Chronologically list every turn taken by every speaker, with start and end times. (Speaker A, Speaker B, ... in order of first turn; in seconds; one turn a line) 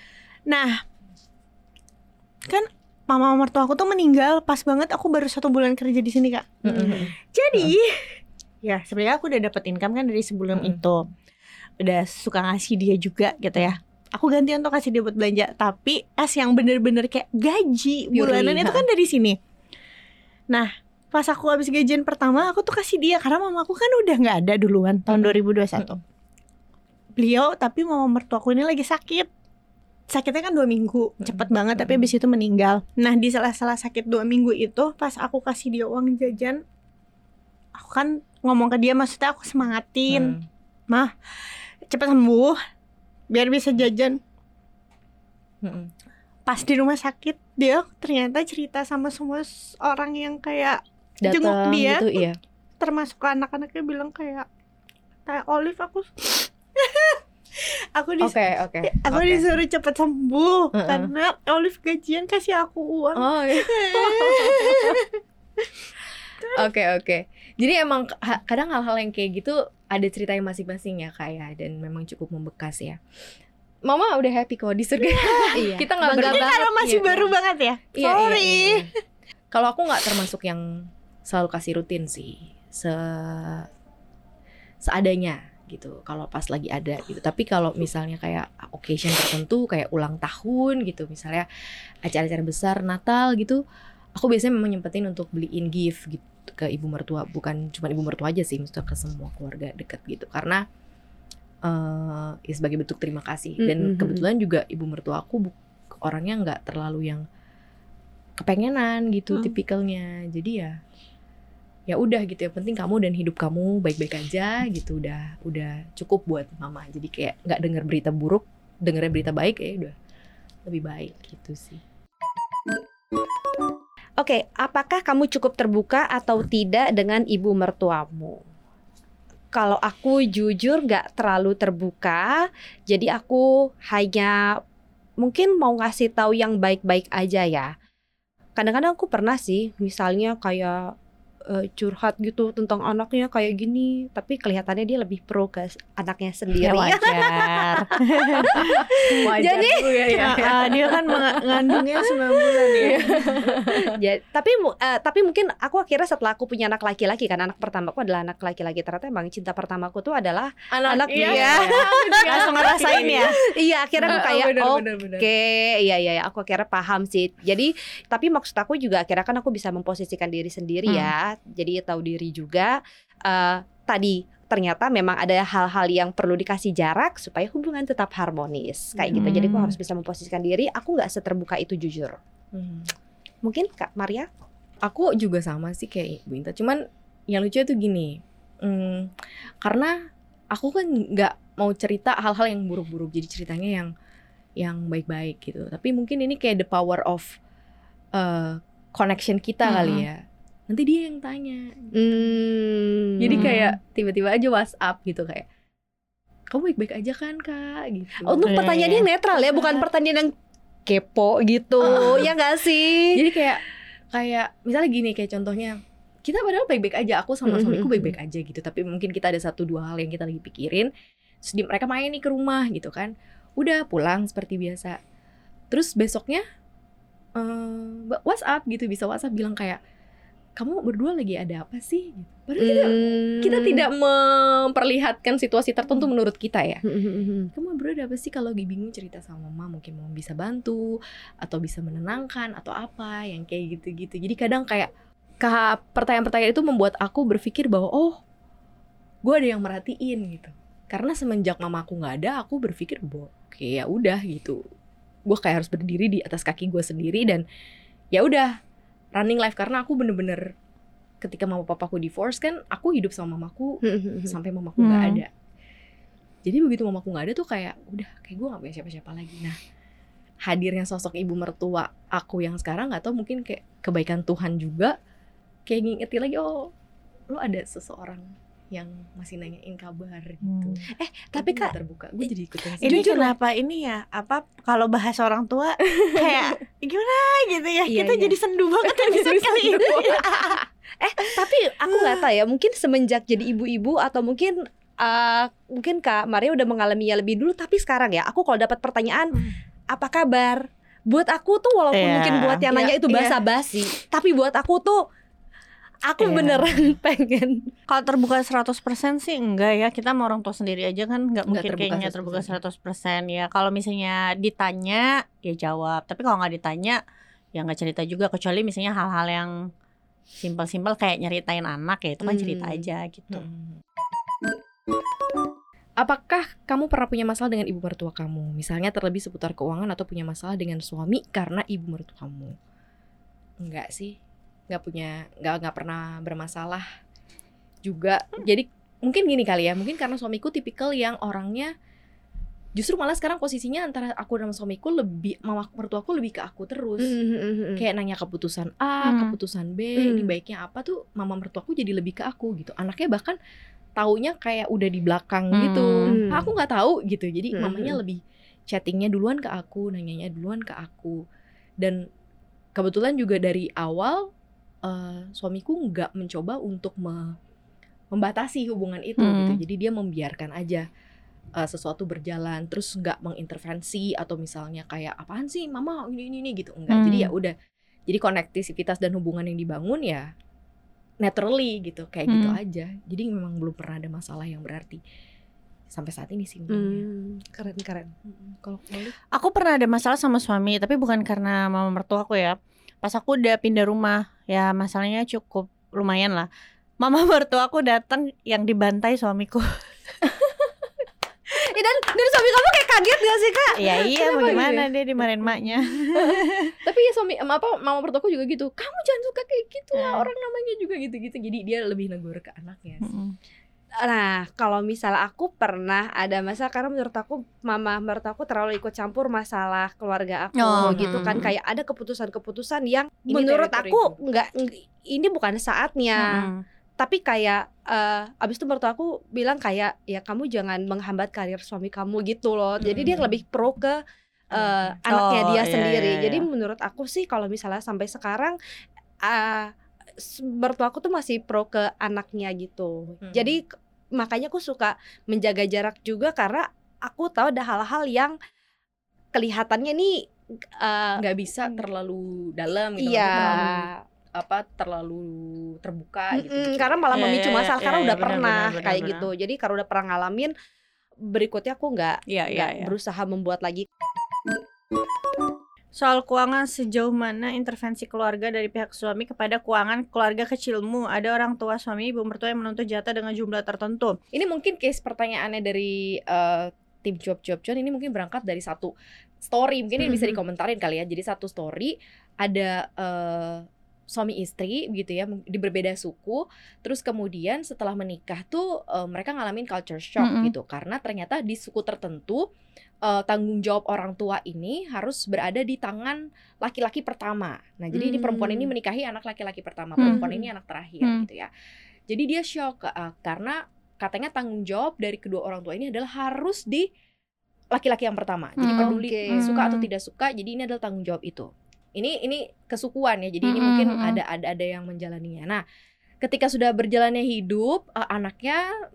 Speaker A: 0.5-0.8
Speaker A: 2.5-11.1
Speaker B: 6.6-7.7
Speaker B: 10.5-10.8
Speaker A: 11.8-19.4
Speaker B: 18.1-18.8
Speaker A: 20.5-26.0
Speaker B: 25.1-26.0
Speaker A: 27.2-29.3
Speaker A: 30.1-36.6
Speaker B: 31.2-32.0
Speaker A: 37.8-40.4
Speaker B: 40.1-40.5
Speaker A: 41.9-42.6
Speaker A: 43.3-44.2
Speaker B: 45.6-45.9
Speaker A: 46.5-52.2
Speaker B: 51.2-52.4
Speaker A: 52.8-54.5
Speaker A: 55.3-65.0
Speaker B: 58.2-59.5
Speaker B: 60.7-61.1
Speaker B: 63.1-65.7
Speaker B: 66.5-73.0
Speaker B: 73.9-77.3
Speaker A: 75.2-78.8
Speaker C: 75.5-76.9
Speaker B: 78.0-78.9
Speaker B: 79.5-83.7
Speaker B: 84.8-91.5
Speaker B: 92.0-93.6
Speaker B: 94.2-100.6
Speaker B: 101.7-107.2
Speaker C: 103.6-104.3
Speaker B: 108.4-110.8
Speaker B: 111.9-120.0
Speaker B: 120.7-121.8
Speaker C: 124.2-128.4
Speaker C: 129.5-134.6
Speaker C: 135.2-137.7
Speaker C: 138.6-140.9
Speaker C: 141.5-150.3
Speaker B: 146.7-151.8
Speaker A: 146.7-149.2
Speaker A: 150.1-153.1
Speaker B: 152.4-153.9
Speaker C: 152.8-182.2
Speaker B: 160.7-163.4
Speaker A: 161.1-163.3
Speaker B: 164.0-165.3
Speaker B: 170.9-171.1
Speaker B: 179.0-179.7
Speaker A: 179.2-179.6
Speaker B: 182.5-182.9
Speaker C: 183.4-184.3
Speaker B: 184.8-189.1
Speaker B: 189.6-190.0
Speaker B: 190.5-193.9
Speaker B: 194.6-197.3
Speaker B: 198.2-201.9
Speaker C: 199.7-200.1
Speaker C: 201.9-203.7
Speaker B: 203.2-205.5
Speaker B: 206.5-208.4
Speaker C: 208.2-210.3
Speaker A: 208.4-209.1
Speaker B: 209.3-209.8
Speaker C: 210.9-213.2
Speaker B: 211.8-212.3
Speaker B: 213.1-213.6
Speaker B: 214.1-220.9
Speaker C: 217.5-218.2
Speaker B: 221.4-225.0
Speaker B: 225.7-226.4
Speaker B: 227.4-229.8
Speaker B: 230.6-236.8
Speaker C: 232.6-233.9
Speaker C: 236.8-237.5
Speaker B: 237.5-248.2
Speaker B: 249.2-254.6
Speaker B: 255.3-257.4
Speaker B: 258.1-258.5
Speaker B: 259.2-260.5
Speaker B: 261.2-265.3
Speaker C: 263.8-264.3
Speaker A: 264.8-265.2
Speaker B: 266.4-269.6
Speaker B: 270.5-274.9
Speaker B: 275.7-276.7
Speaker B: 277.3-280.9
Speaker A: 280.4-280.8
Speaker C: 280.9-281.7
Speaker B: 281.4-283.3
Speaker C: 282.8-283.3
Speaker A: 282.8-290.6
Speaker B: 285.9-286.5
Speaker C: 287.9-288.4
Speaker B: 288.9-290.6
Speaker C: 289.9-305.0
Speaker A: 291.9-292.2
Speaker A: 301.9-302.6
Speaker B: 302.7-303.4
Speaker C: 306.1-307.7
Speaker B: 306.3-306.6
Speaker A: 307.9-317.0
Speaker B: 311.5-312.6
Speaker A: 317.5-319.7
Speaker A: 320.4-323.5
Speaker C: 322.2-322.8
Speaker B: 323.3-323.8
Speaker B: 326.0-332.6
Speaker B: 333.6-334.2
Speaker B: 334.7-336.9
Speaker B: 337.9-341.7
Speaker B: 342.8-347.1
Speaker C: 347.0-347.8
Speaker B: 347.8-353.4
Speaker A: 349.0-349.4
Speaker C: 350.0-350.3
Speaker B: 354.0-361.2
Speaker A: 355.5-356.2
Speaker C: 356.1-356.5
Speaker C: 357.6-358.0
Speaker B: 361.8-362.1
Speaker B: 362.8-364.3
Speaker B: 364.8-367.4
Speaker B: 368.1-370.9
Speaker A: 369.2-369.6
Speaker B: 371.6-377.6
Speaker A: 376.9-377.3
Speaker B: 378.1-380.3
Speaker B: 381.2-385.0
Speaker A: 382.3-382.6
Speaker B: 385.9-387.0
Speaker C: 386.7-388.1
Speaker B: 388.3-389.1
Speaker A: 389.3-396.5
Speaker A: 397.0-399.9
Speaker C: 401.5-403.9
Speaker A: 403.8-406.7
Speaker B: 404.1-404.9
Speaker B: 406.1-413.1
Speaker A: 410.0-410.2
Speaker A: 413.0-413.4
Speaker C: 414.0-434.0
Speaker A: 420.6-421.5
Speaker B: 420.8-421.5
Speaker B: 423.3-424.2
Speaker A: 426.2-426.6
Speaker B: 432.8-433.3
Speaker C: 434.5-438.6
Speaker B: 434.5-435.0
Speaker A: 435.1-436.5
Speaker C: 439.2-448.4
Speaker B: 443.2-443.6
Speaker C: 449.3-451.2
Speaker B: 451.2-457.3
Speaker C: 453.0-454.0
Speaker C: 456.3-460.5
Speaker A: 457.1-459.3
Speaker C: 461.2-463.9
Speaker A: 462.3-462.9
Speaker A: 465.9-474.2
Speaker B: 474.3-492.5
Speaker A: 490.2-490.5
Speaker B: 493.0-501.5
Speaker C: 497.9-498.7
Speaker A: 500.0-500.3
Speaker C: 500.0-500.4
Speaker A: 501.0-501.3
Speaker B: 502.1-506.9
Speaker B: 507.7-515.6
Speaker A: 508.6-509.9
Speaker C: 508.7-509.5
Speaker A: 513.4-514.2
Speaker B: 516.2-518.6